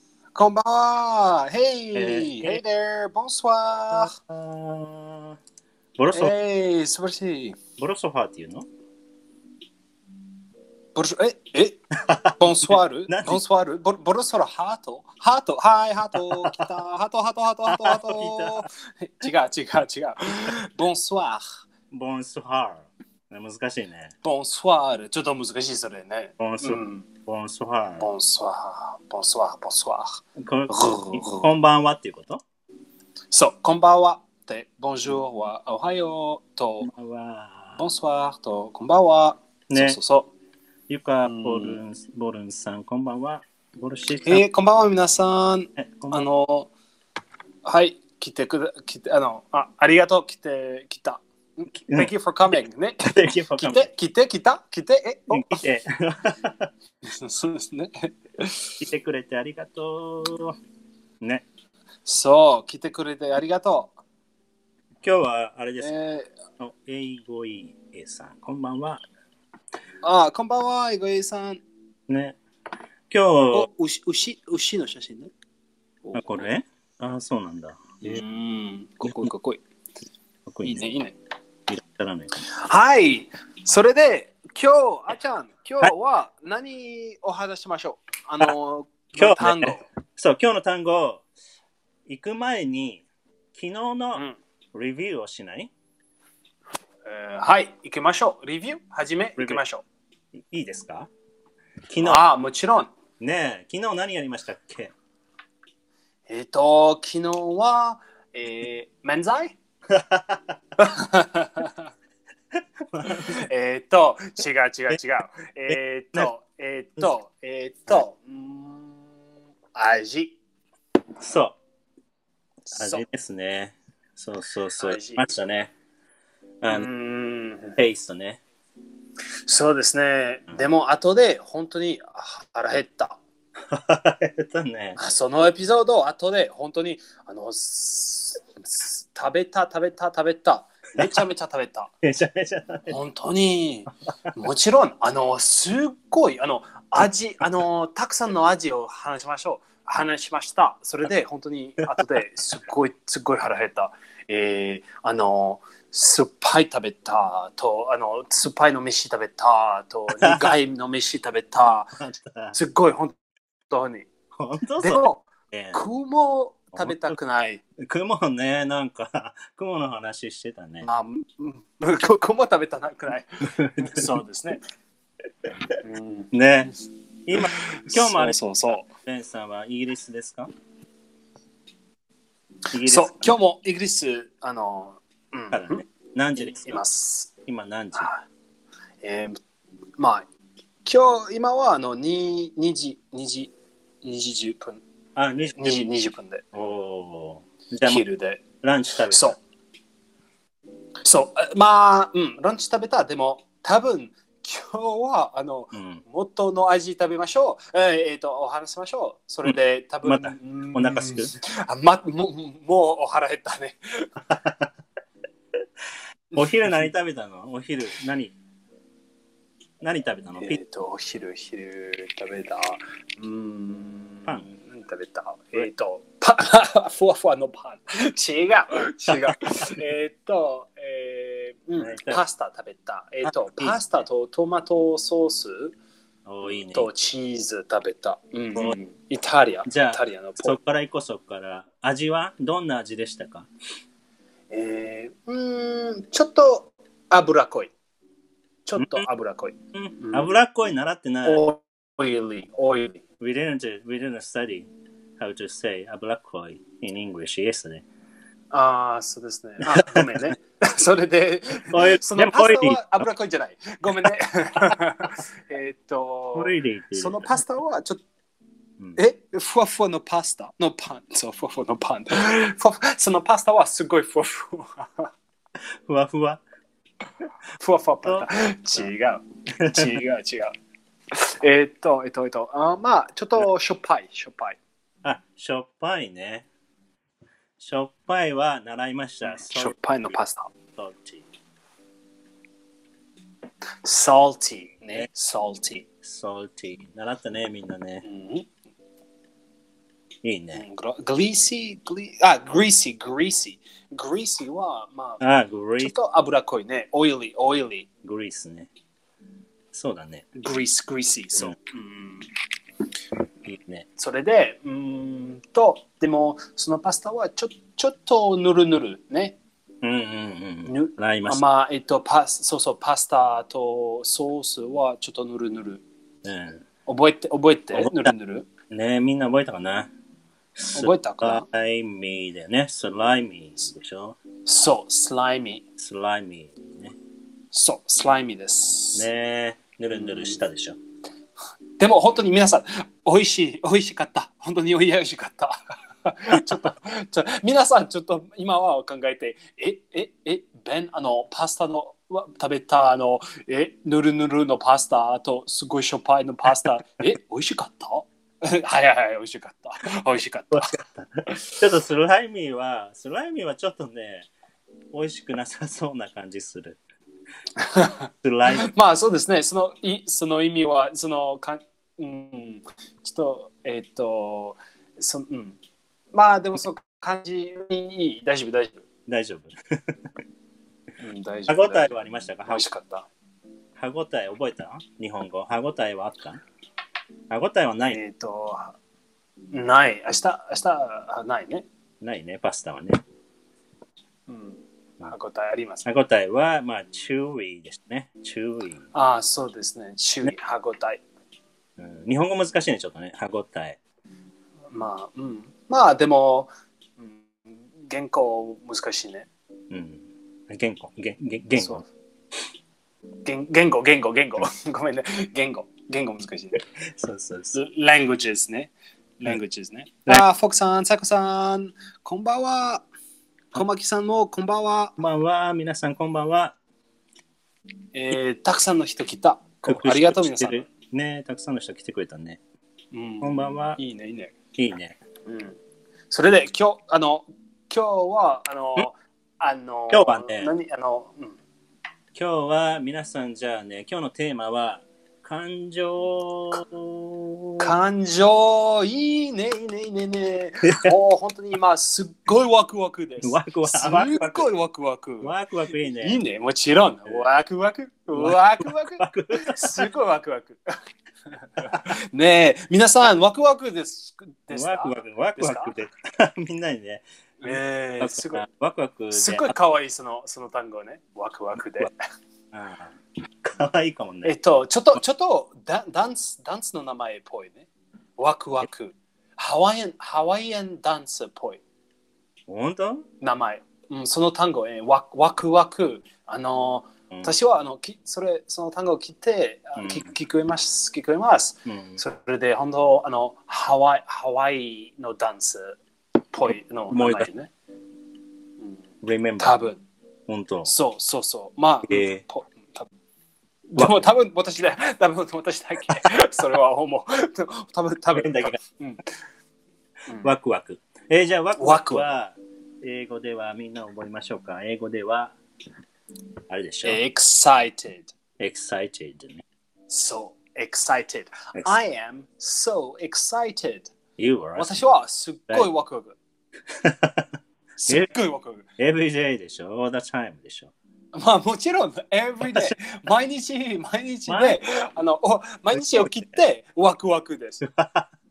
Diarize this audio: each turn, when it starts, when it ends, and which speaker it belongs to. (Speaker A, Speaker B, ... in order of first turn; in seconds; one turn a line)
Speaker A: 0.3-4.1
Speaker B: 1.9-2.6
Speaker B: 3.9-5.4
Speaker B: 6.0-6.3
Speaker A: 6.1-7.6
Speaker B: 7.8-8.7
Speaker A: 10.9-21.4
Speaker B: 12.1-13.4
Speaker B: 16.2-16.7
Speaker B: 17.7-18.7
Speaker B: 21.9-24.1
Speaker A: 24.2-27.1
Speaker B: 26.4-28.1
Speaker A: 28.0-31.5
Speaker B: 30.4-32.4
Speaker A: 33.3-36.9
Speaker B: 36.8-37.8
Speaker A: 37.8-40.3
Speaker B: 39.7-40.0
Speaker B: 40.9-44.4
Speaker A: 41.2-41.8
Speaker A: 44.2-46.7
Speaker B: 45.8-46.2
Speaker A: 47.6-55.6
Speaker B: 51.9-53.9
Speaker B: 55.3-56.7
Speaker A: 57.0-58.7
Speaker B: 58.8-60.6
Speaker A: 62.0-63.9
Speaker B: 65.0-65.9
Speaker A: 65.8-66.3
Speaker B: 66.6-69.0
Speaker A: 70.0-71.6
Speaker B: 72.1-72.4
Speaker B: 73.1-73.7
Speaker A: 73.5-75.3
Speaker A: 76.0-76.5
Speaker B: 76.1-78.2
Speaker A: 78.0-79.6
Speaker B: 79.0-79.3
Speaker B: 80.5-80.9
Speaker A: 80.6-81.2
Speaker B: 81.7-82.3
Speaker A: 82.4-89.8
Speaker B: 89.2-91.2
Speaker B: 92.1-95.7
Speaker A: 97.0-99.8
Speaker B: 100.4-101.1
Speaker B: 101.9-102.2
Speaker A: 102.0-102.9
Speaker B: 103.2-104.9
Speaker A: 106.3-109.6
Speaker B: 109.9-110.5
Speaker A: 110.8-111.8
Speaker B: 112.9-113.4
Speaker A: 113.0-119.1
Speaker B: 115.7-116.3
Speaker A: 119.7-120.4
Speaker B: 121.2-121.6
Speaker A: 122.7-123.0
Speaker B: 122.7-125.7
Speaker A: 124.8-125.2
Speaker B: 126.6-126.9
Speaker A: 126.7-127.8
Speaker B: 127.8-128.4
Speaker A: 129.4-133.2
Speaker B: 133.7-135.0
Speaker A: 134.9-141.9
Speaker B: 142.0-142.9
Speaker A: 142.9-162.0
Speaker B: 160.1-160.6
Speaker B: 162.0-162.6
Speaker A: 162.5-163.2
Speaker A: 163.7-164.1
Speaker B: 164.3-165.8
Speaker A: 164.8-167.6
Speaker B: 166.7-167.2
Speaker B: 167.8-170.9
Speaker A: 170.8-174.6
Speaker B: 173.6-174.0
Speaker A: 175.8-176.3
Speaker B: 176.3-180.5
Speaker A: 177.3-178.9
Speaker B: 182.7-183.3
Speaker A: 182.8-185.8
Speaker B: 185.5-186.8
Speaker A: 186.4-187.3
Speaker B: 187.4-188.1
Speaker A: 187.9-188.2
Speaker A: 189.0-189.4
Speaker A: 190.0-190.2
Speaker A: 190.8-193.5
Speaker A: 194.0-194.8
Speaker B: 195.2-195.8
Speaker A: 195.5-196.4
Speaker B: 196.5-198.0
Speaker A: 197.8-198.4
Speaker B: 198.6-199.3
Speaker A: 199.0-199.4
Speaker A: 201.0-214.1
Speaker B: 205.7-206.0
Speaker B: 209.4-211.3
Speaker B: 214.4-214.7
Speaker B: 216.3-218.3
Speaker B: 219.8-220.6
Speaker A: 220.4-235.8
Speaker B: 224.2-224.5
Speaker B: 231.8-232.2
Speaker B: 233.3-233.8
Speaker B: 236.2-236.9
Speaker A: 236.4-240.6
Speaker B: 239.7-243.5
Speaker A: 244.5-247.7
Speaker A: 248.7-250.3
Speaker B: 248.8-249.0
Speaker B: 249.7-251.4
Speaker A: 251.2-253.0
Speaker B: 253.2-254.7
Speaker B: 255.2-257.8
Speaker A: 258.5-268.0
Speaker B: 259.8-260.1
Speaker B: 261.7-262.8
Speaker B: 266.3-267.3
Speaker A: 268.9-275.1
Speaker B: 275.9-276.4
Speaker A: 277.6-280.5
Speaker B: 278.0-278.9
Speaker B: 279.6-280.0
Speaker A: 281.1-284.6
Speaker B: 285.0-286.5
Speaker B: 287.6-290.1
Speaker A: 289.2-290.5
Speaker B: 290.8-291.3
Speaker A: 293.8-295.8
Speaker B: 296.0-298.0
Speaker A: 298.0-298.5
Speaker B: 300.2-300.6
Speaker A: 300.5-305.2
Speaker B: 305.2-305.9
Speaker A: 305.8-307.9
Speaker B: 308.0-308.7
Speaker B: 309.7-310.3
Speaker A: 310.4-312.3
Speaker B: 313.4-313.9
Speaker A: 314.0-319.4
Speaker B: 319.8-321.4
Speaker A: 320.6-325.8
Speaker B: 326.2-326.6
Speaker A: 326.9-328.5
Speaker B: 327.7-328.1
Speaker B: 328.7-329.9
Speaker B: 330.6-334.2
Speaker A: 330.7-331.4
Speaker A: 334.4-335.6
Speaker B: 335.8-336.9
Speaker A: 337.5-339.1
Speaker B: 338.9-340.8
Speaker A: 339.9-340.4
Speaker A: 341.8-360.7
Speaker B: 360.5-364.3
Speaker B: 364.9-366.8
Speaker A: 367.6-375.6
Speaker B: 368.2-368.7
Speaker A: 376.1-378.8
Speaker B: 379.1-379.9
Speaker A: 381.0-381.9
Speaker B: 381.5-382.6
Speaker A: 382.5-383.1
Speaker B: 383.8-386.4
Speaker B: 387.3-388.0
Speaker A: 387.9-388.8
Speaker A: 389.5-391.6
Speaker B: 392.0-393.0
Speaker A: 394.3-395.8
Speaker B: 395.8-398.9
Speaker A: 398.9-401.0
Speaker B: 401.8-403.8
Speaker A: 404.7-409.3
Speaker B: 409.7-411.8
Speaker A: 411.6-411.8
Speaker A: 413.2-416.6
Speaker B: 416.9-417.6
Speaker A: 417.5-422.9
Speaker A: 423.5-424.9
Speaker B: 425.0-426.6
Speaker A: 427.9-430.7
Speaker B: 429.6-432.4
Speaker A: 432.9-434.3
Speaker B: 433.2-433.8
Speaker B: 434.6-435.0
Speaker A: 435.2-435.6
Speaker A: 436.1-441.4
Speaker B: 439.9-440.5
Speaker B: 442.1-447.7
Speaker A: 447.6-455.3
Speaker B: 453.2-454.5
Speaker B: 455.2-456.2
Speaker A: 456.0-460.6
Speaker B: 458.1-459.9
Speaker A: 461.6-465.7
Speaker B: 464.5-469.5
Speaker A: 467.4-468.4
Speaker A: 469.1-472.0
Speaker B: 472.5-474.3
Speaker A: 474.2-477.7
Speaker A: 478.2-481.6
Speaker B: 482.5-483.0
Speaker A: 483.2-495.8
Speaker B: 489.8-490.1
Speaker B: 491.6-492.0
Speaker A: 496.3-497.5
Speaker B: 496.9-497.3
Speaker B: 499.0-499.6
Speaker A: 499.4-499.8
Speaker B: 500.3-500.7
Speaker A: 500.6-502.9
Speaker B: 501.9-502.2
Speaker A: 503.7-509.0
Speaker B: 503.8-504.0
Speaker B: 508.1-508.6
Speaker B: 510.2-515.3
Speaker A: 511.6-512.1
Speaker B: 516.5-517.0
Speaker A: 516.8-518.1
Speaker B: 518.4-519.4
Speaker A: 519.9-523.9
Speaker B: 524.2-524.7
Speaker A: 524.5-526.2
Speaker B: 526.7-527.3
Speaker A: 527.8-528.6
Speaker B: 528.8-530.7
Speaker A: 531.1-537.6
Speaker B: 532.4-532.7
Speaker B: 534.3-534.6
Speaker B: 535.7-536.2
Speaker B: 537.6-538.1